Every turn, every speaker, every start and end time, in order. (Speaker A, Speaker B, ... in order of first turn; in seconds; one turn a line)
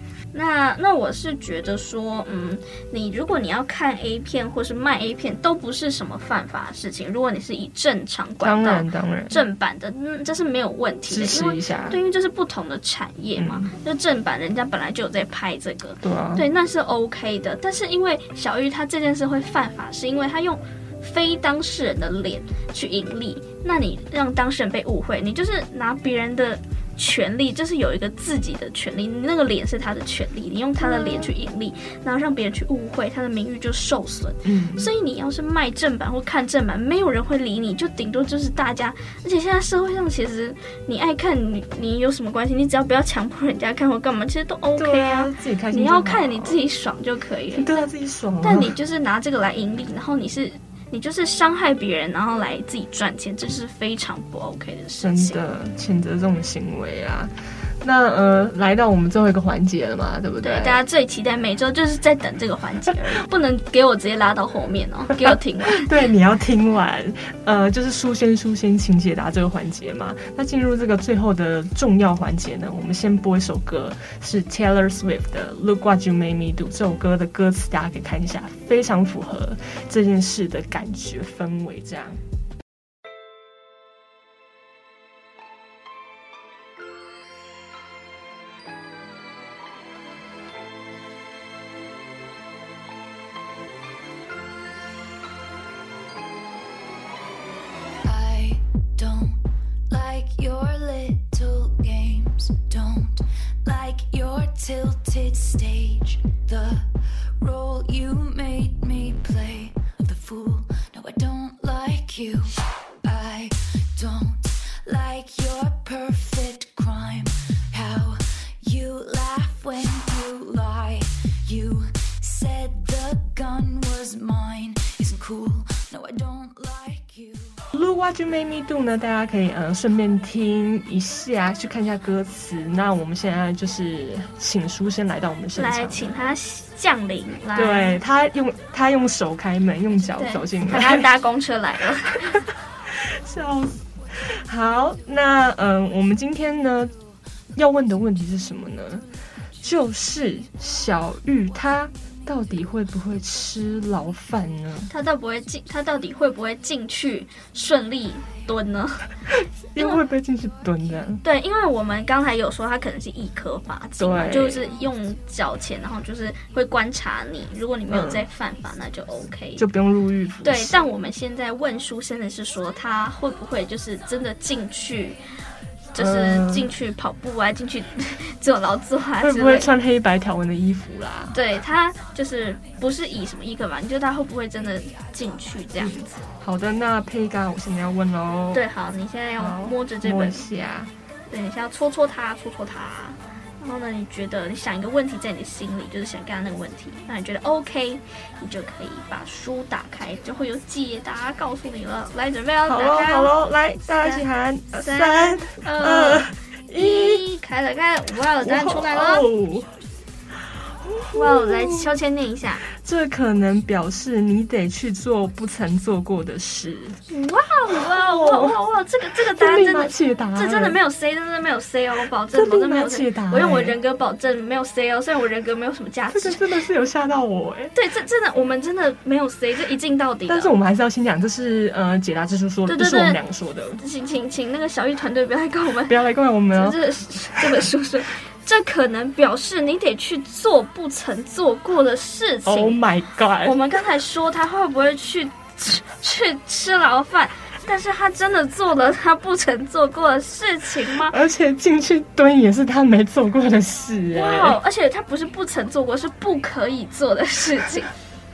Speaker A: 0.3-47.8
Speaker B: 8.4-9.4
Speaker B: 11.1-12.0
Speaker B: 13.4-13.7
Speaker B: 16.0-16.4
Speaker B: 30.8-31.3
Speaker B: 34.4-34.9
Speaker B: 44.8-46.6
Speaker B: 47.5-48.8
Speaker A: 48.4-55.4
Speaker B: 55.0-60.8
Speaker A: 60.4-65.9
Speaker B: 65.2-82.2
Speaker C: 98.0-127.6
Speaker B: 127.7-136.4
Speaker A: 135.5-138.0
Speaker B: 137.5-141.1
Speaker A: 140.1-142.4
Speaker B: 142.3-146.9
Speaker B: 147.5-149.1
Speaker B: 149.6-154.9
Speaker A: 154.9-159.1
Speaker B: 159.3-161.2
Speaker A: 159.8-160.0
Speaker A: 161.2-169.6
Speaker B: 164.0-164.8
Speaker B: 167.9-168.2
Speaker B: 169.6-170.9
Speaker A: 170.4-175.2
Speaker A: 175.9-179.7
Speaker B: 175.9-176.7
Speaker B: 179.2-181.4
Speaker A: 181.3-186.2
Speaker B: 185.8-188.7
Speaker A: 188.5-190.4
Speaker B: 189.4-190.9
Speaker A: 191.3-203.3
Speaker B: 202.7-207.2
Speaker A: 204.0-204.2
Speaker A: 204.8-209.3
Speaker B: 208.4-209.7
Speaker B: 210.7-211.9
Speaker A: 211.1-212.7
Speaker B: 212.7-217.0
Speaker A: 217.1-226.5
Speaker B: 217.7-218.6
Speaker B: 219.3-220.8
Speaker B: 222.3-223.8
Speaker B: 226.1-227.7
Speaker A: 227.7-230.5
Speaker B: 230.3-233.8
Speaker A: 232.7-233.2
Speaker A: 233.8-236.0
Speaker B: 235.9-237.7
Speaker A: 236.5-242.8
Speaker B: 242.4-243.6
Speaker A: 243.4-251.2
Speaker B: 251.0-254.6
Speaker A: 254.1-257.9